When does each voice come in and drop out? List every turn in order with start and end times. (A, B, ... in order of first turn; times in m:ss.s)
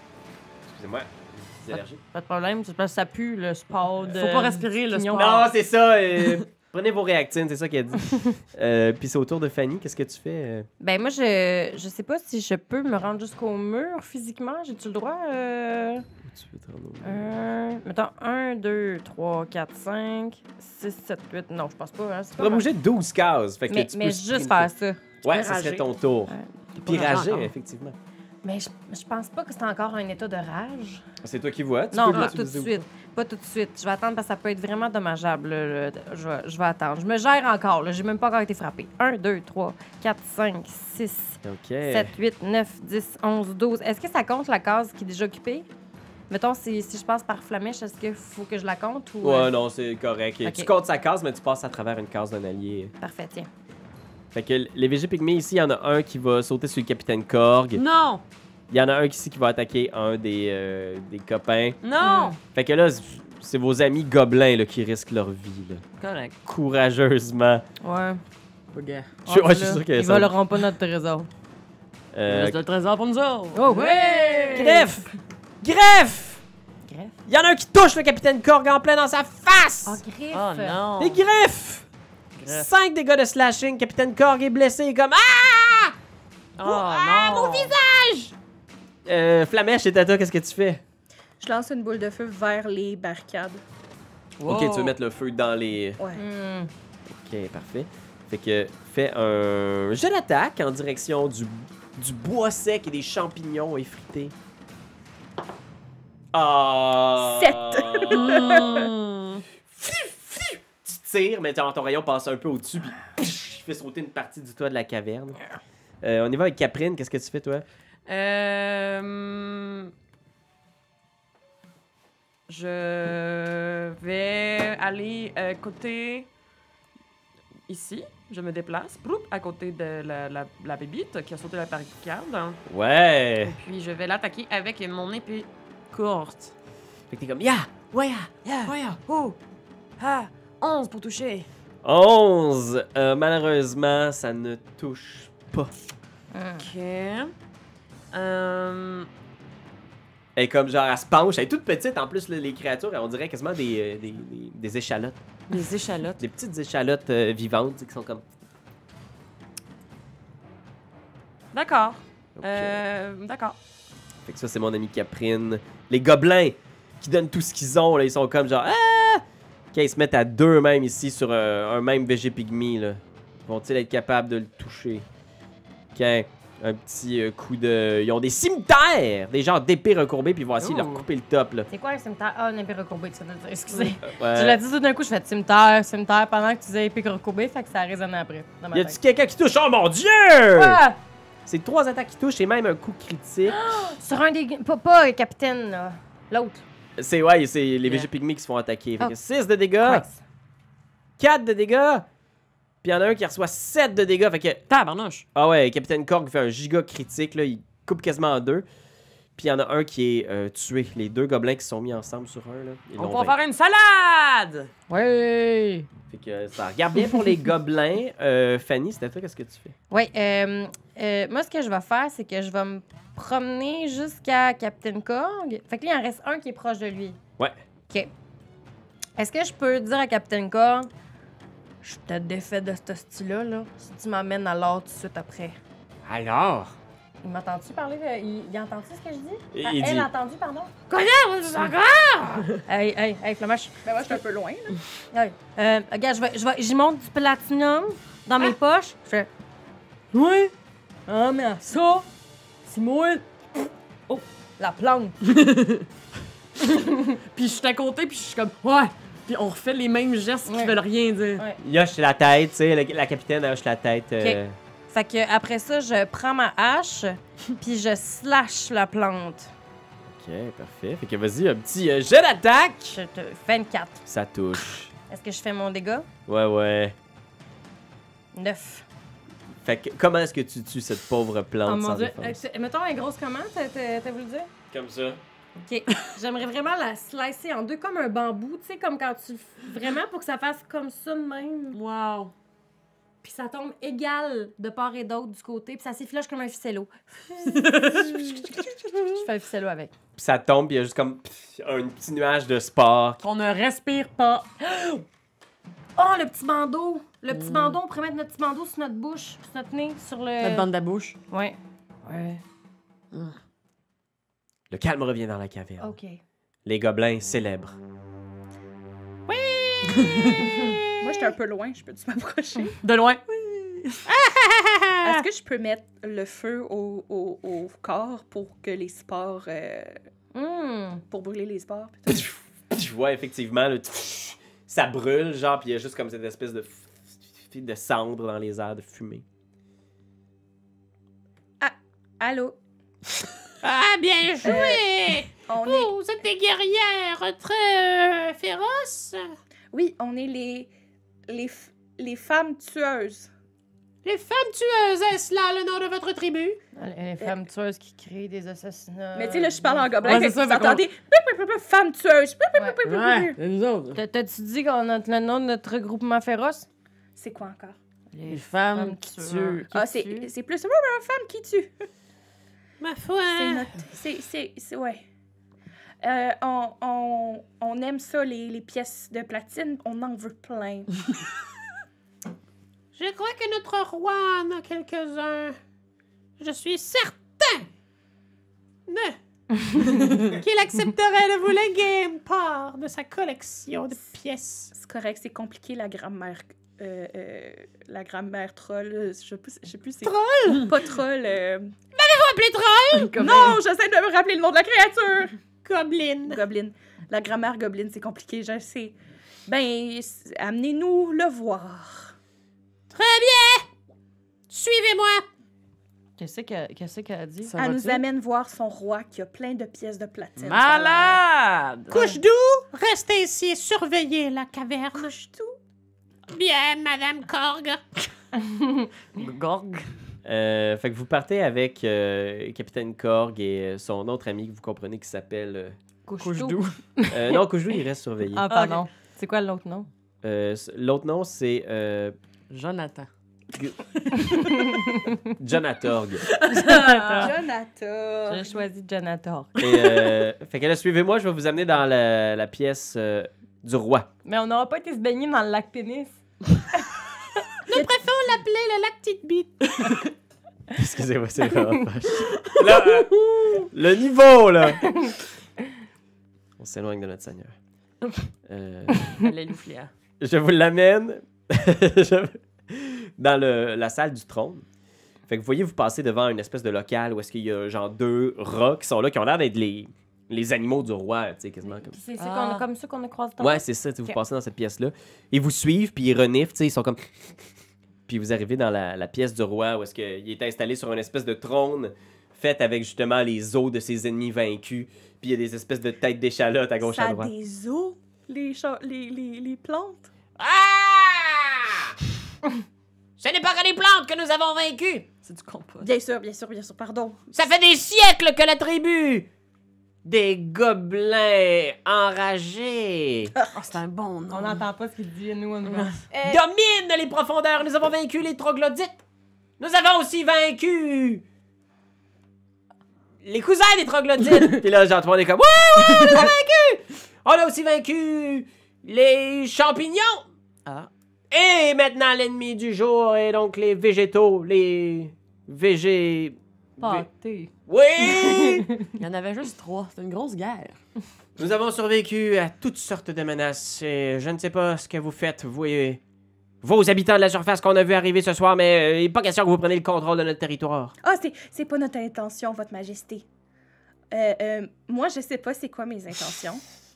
0:00.7-0:02.0 A
0:02.1-0:05.5 B
0:04.1-0:05.5 C
0:05.1-0:10.7 A
0:10.8-0:16.0 B
0:16.3-0:17.5 A
0:17.0-0:22.7 B
0:22.4-0:24.7 A
0:23.7-0:26.5 B
0:25.2-0:28.0 A
0:26.8-0:27.5 C
0:28.4-0:31.0 B
0:31.2-0:32.8 A
0:31.9-0:45.7 B
0:32.1-0:32.4 C
0:41.4-0:42.2 A
0:46.3-0:49.5 B
0:49.2-0:52.9 A
0:50.4-0:50.7 B
0:53.0-0:53.5 B
0:54.3-0:57.8 A
0:57.7-0:58.2 C
0:58.7-1:01.8 A
1:01.8-1:02.4 C
1:02.0-1:02.4 B
1:02.5-1:05.8 A
1:06.0-1:06.4 C
1:06.4-1:07.6 A
1:07.8-1:08.2 B
1:08.7-1:09.2 C
1:09.3-1:11.3 B
1:09.3-1:10.3 A
1:12.1-1:12.6 A
1:12.3-1:14.8 C
1:13.5-1:15.0 B
1:14.5-1:15.1 A
1:15.6-1:16.4 A
1:16.9-1:17.1 B
1:17.3-1:20.0 A
1:19.8-1:20.8 B
1:20.3-1:21.2 C
1:21.0-1:21.9 A
1:22.4-1:22.7 C
1:22.5-1:25.9 A
1:26.6-1:27.8 C
1:26.6-1:28.3 D
1:29.0-1:30.8 A
1:31.4-1:33.6 E
1:34.4-1:35.0 C
1:34.4-1:36.0 A
1:36.0-1:36.2 E
1:36.2-1:36.7 B
1:37.1-1:44.3 A
1:46.3-1:48.9 A
1:47.2-1:48.8 E
1:48.1-1:49.4 C
1:49.7-1:55.4 A
1:56.0-1:57.6 A
1:58.1-1:59.9 C
2:02.5-2:06.3 C
2:07.7-2:12.6 C
2:12.7-2:13.6 A
2:13.4-2:16.5 C
2:17.1-2:18.7 A
2:18.4-2:19.4 C
2:20.0-2:21.5 C
2:21.8-2:25.7 A
2:26.3-2:26.6 B
2:26.6-2:27.3 C
2:28.1-2:29.1 C
2:30.4-2:35.2 A
2:35.5-2:36.2 C
2:36.2-2:38.2 A
2:41.5-2:43.6 C
2:42.4-2:42.8 A
2:44.3-2:55.0 A
2:56.0-3:01.7 A
3:00.6-3:01.1 C
3:01.7-3:09.0 B
3:04.0-3:04.6 A
3:08.7-3:10.8 A
3:10.6-3:11.0 B
3:11.5-3:13.6 A
3:13.5-3:16.6 B
3:17.0-3:20.0 A
3:17.8-3:18.1 C
3:19.8-3:20.2 B
3:21.2-3:22.0 A
3:22.8-3:24.6 A
3:24.7-3:25.2 C
3:25.4-3:28.6 A
3:29.4-3:33.4 A
3:33.0-3:34.7 C
3:34.9-3:35.9 B
3:36.1-3:39.7 A
3:39.9-3:47.2 B
3:49.2-3:50.9 B
3:51.8-3:55.6 B
3:56.1-3:56.7 A
3:57.2-4:00.7 B
3:59.5-4:00.1 A
4:00.9-4:02.5 D
4:02.7-4:04.2 B
4:03.8-4:04.8 E
4:05.1-4:09.3 B
4:10.1-4:10.5 B
4:11.1-4:12.1 B
4:12.6-4:13.2 B
4:14.1-4:15.2 B
4:15.2-4:15.9 C
4:17.3-4:21.5 C
4:20.5-4:20.8 B
4:21.6-4:24.6 A
4:24.2-4:29.5 B
4:30.1-4:33.0 A
4:32.9-4:34.0 B
4:34.1-4:34.9 A
4:35.1-4:36.1 B
4:36.3-4:36.9 A
4:38.3-4:38.8 B
4:39.6-4:42.4 A
4:41.7-4:44.5 B
4:44.7-4:45.2 A
4:45.6-4:51.8 B
4:51.7-4:52.3 C
4:53.2-4:58.5 B
4:57.4-4:59.1 C
4:59.1-4:59.9 B
5:00.2-5:03.2 A
5:03.2-5:04.5 C
5:04.6-5:05.0 B
5:06.0-5:10.7 B
5:07.3-5:07.8 C
5:10.4-5:11.2 C
5:11.3-5:12.4 B
5:14.7-5:15.9 A
5:15.8-5:16.2 B
5:16.7-5:17.8 A
5:19.3-5:19.9 D
5:20.0-5:20.5 C
5:21.0-5:22.8 E
5:22.8-5:24.0 C
5:24.1-5:24.9 D
5:25.0-5:30.0 E
5:30.3-5:31.0 B
5:31.1-5:32.3 E
5:32.1-5:36.8 A
5:37.5-5:39.2 A
5:41.6-5:42.6 E
5:43.6-5:49.2 D
5:44.4-5:44.9 E
5:45.5-5:46.0 E
5:49.7-5:50.7 E
5:51.3-5:53.3 E
5:54.0-5:56.6 D
5:56.8-6:00.3 B
5:59.1-6:03.4 E
6:00.0-6:00.8 C
6:02.8-6:04.0 C
6:03.9-6:06.7 B
6:07.2-6:07.8 E
6:08.1-6:10.3 B
6:08.3-6:09.7 C
6:09.7-6:11.8 E
6:12.8-6:13.7 D
6:13.3-6:15.0 E
6:16.0-6:21.0 E
6:23.0-6:25.6 D
6:26.4-6:27.6 D
6:28.9-6:29.2 D
6:30.3-6:34.7 D
6:34.7-6:41.7 E
6:40.0-6:40.7 D
6:42.0-6:43.2 D
6:43.0-6:43.5 C
6:43.1-6:45.4 E
6:45.6-6:46.4 D
6:46.2-6:52.2 E
6:52.9-6:53.7 D
6:54.5-6:55.2 D
6:56.2-6:57.5 B
6:57.4-6:58.0 C
6:57.6-7:01.2 E
7:00.4-7:02.2 C
7:01.9-7:05.3 D
7:04.9-7:05.5 E
7:06.3-7:07.8 D
7:08.4-7:08.9 B
7:09.2-7:09.9 C
7:10.2-7:15.7 A
7:16.1-7:17.4 B
7:16.2-7:16.8 C
7:17.1-7:18.5 A
7:18.3-7:19.9 B
7:18.5-7:18.8 C
7:20.2-7:22.2 A
7:22.5-7:23.1 C
7:24.0-7:24.4 C
7:24.2-7:25.2 B
7:25.4-7:26.2 A
7:26.3-7:27.3 C
7:26.5-7:27.3 B
7:27.1-7:28.6 E
7:28.3-7:30.2 B
7:29.6-7:34.1 A
7:34.2-7:36.2 B
7:37.7-7:39.6 D
7:39.8-7:40.0 C
7:40.8-7:44.8 A
7:42.4-7:43.1 C
7:44.8-7:45.1 B
7:46.6-7:47.5 A
7:48.5-7:49.2 A
7:49.1-7:49.9 C
7:50.2-7:54.6 A
7:55.3-8:02.0 A
8:01.7-8:04.2 B
8:02.2-8:02.7 C
8:03.4-8:07.0 A
8:08.1-8:17.3 A
8:16.8-8:20.1 E
8:23.2-8:25.0 D
8:25.2-8:25.9 C
8:25.8-8:27.2 E
8:28.0-8:29.3 A
8:30.0-8:33.3 A
8:33.5-8:34.6 C
8:34.3-8:35.9 B
8:35.6-8:36.0 C
8:36.1-8:36.4 E
8:36.3-8:39.0 A
8:39.6-8:41.2 A
8:43.2-8:50.2 A
8:51.3-8:57.1 A
8:56.8-8:58.9 B
8:57.7-8:58.7 A
8:59.0-9:00.8 C
9:01.4-9:06.0 A
9:06.6-9:10.9 A
9:11.0-9:13.3 E
9:14.1-9:16.6 E